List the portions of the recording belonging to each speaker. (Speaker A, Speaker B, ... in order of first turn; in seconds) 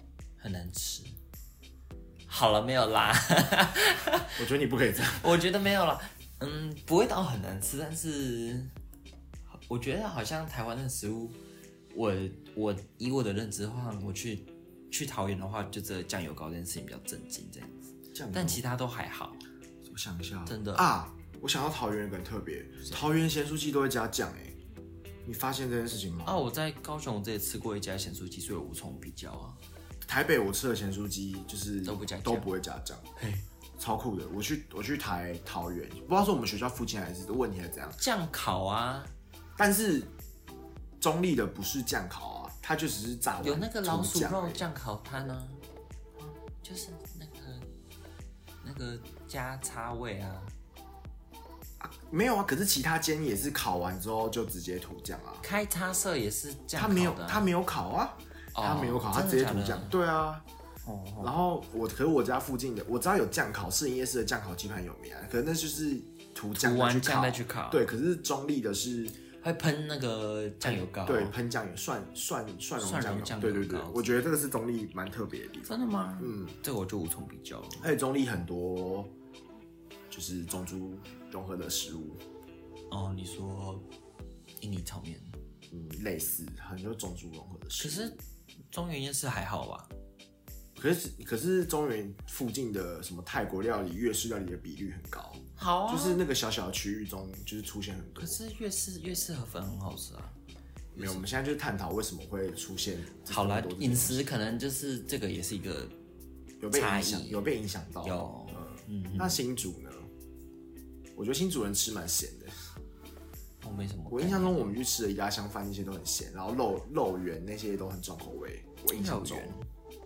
Speaker A: 0.4-1.1, 2.3-4.4, 5.0-8.7, 9.5-11.4, 11.9-19.4, 20.4-20.9, 26.2-29.6, 31.8-32.5, 38.0-39.1, 43.4-45.6, 46.2-47.7, 48.6-50.5, 55.4-57.5, 58.5-60.0, 60.8-61.3, 66.5-67.8, 69.4-71.3, 72.8-74.1, 75.6-77.9, 82.9-83.8, 84.6-85.4, 87.8-88.2, 88.7-89.9, 95.5-96.2, 98.2-100.4, 100.9-101.3, 103.3-105.9, 106.7-107.5, 108.0-109.4, 113.6-114.8, 118.9-119.7
Speaker B: 4.3-5.2, 18.1-18.6, 19.8-24.6, 25.2-26.4, 30.0-33.2, 33.8-38.0, 39.6-40.1, 41.0-44.6, 51.8-55.4, 56.8-60.4, 61.2-69.2, 70.6-76.6, 77.8-79.1, 80.1-82.2, 85.7-88.2, 90.8-98.4, 100.9-104.3, 106.6-110.1, 111.1-112.7, 114.1-119.5